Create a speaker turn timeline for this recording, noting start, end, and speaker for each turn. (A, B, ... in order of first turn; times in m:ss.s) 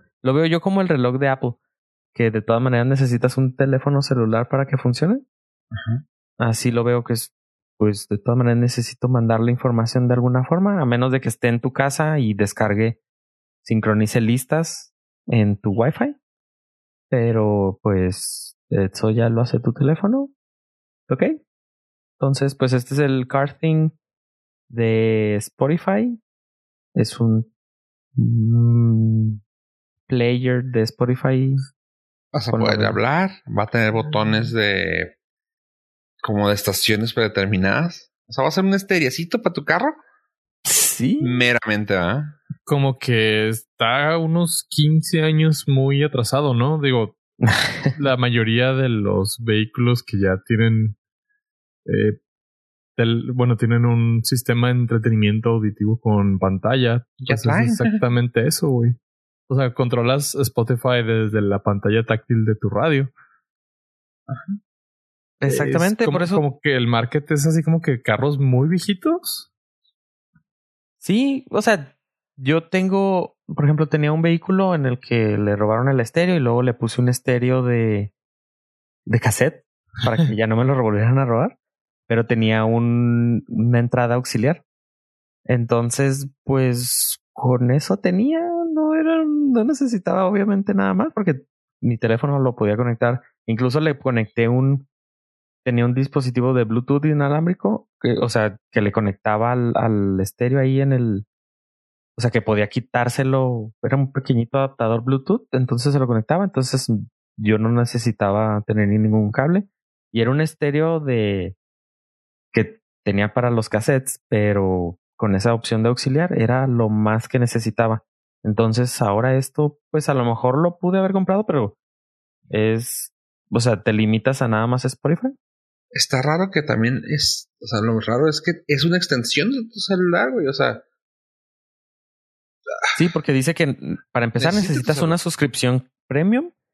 0:00.2-0:01.6 A
0:02.1-0:05.2 A
0:05.7-0:06.0 B
0:06.4-0:13.0 A
0:13.6-0:16.2 A
0:17.1-0:20.3 A
0:21.1-0:21.4 A
0:22.2-0:23.9 A
0:24.7-0:26.2 A
0:26.9-0:27.5 A
0:28.2-0:29.4 A
0:30.1-0:31.7 A
0:32.3-0:35.1 B
0:32.5-0:33.0 A
0:36.2-0:40.0 B
0:40.6-0:41.5 A
0:41.2-0:42.4 B
0:42.6-0:47.2 C
0:47.4-0:47.9 A
0:47.9-0:51.0 C
0:51.8-0:52.2 C
0:53.0-0:59.0 C
0:57.2-0:58.0 B
0:59.5-1:03.1 C
1:04.3-1:04.6 B
1:05.4-1:06.4 A
1:05.5-1:09.5 C
1:11.0-1:18.1 A
1:19.1-1:21.5 A
1:22.1-1:24.6 A
1:25.5-1:34.9 A
1:35.6-1:41.2 A
1:42.2-1:51.5 A
1:52.5-2:01.8 A
2:02.5-2:05.3 A
2:05.9-2:10.8 B
2:12.9-2:16.5 A
2:14.4-2:15.2 B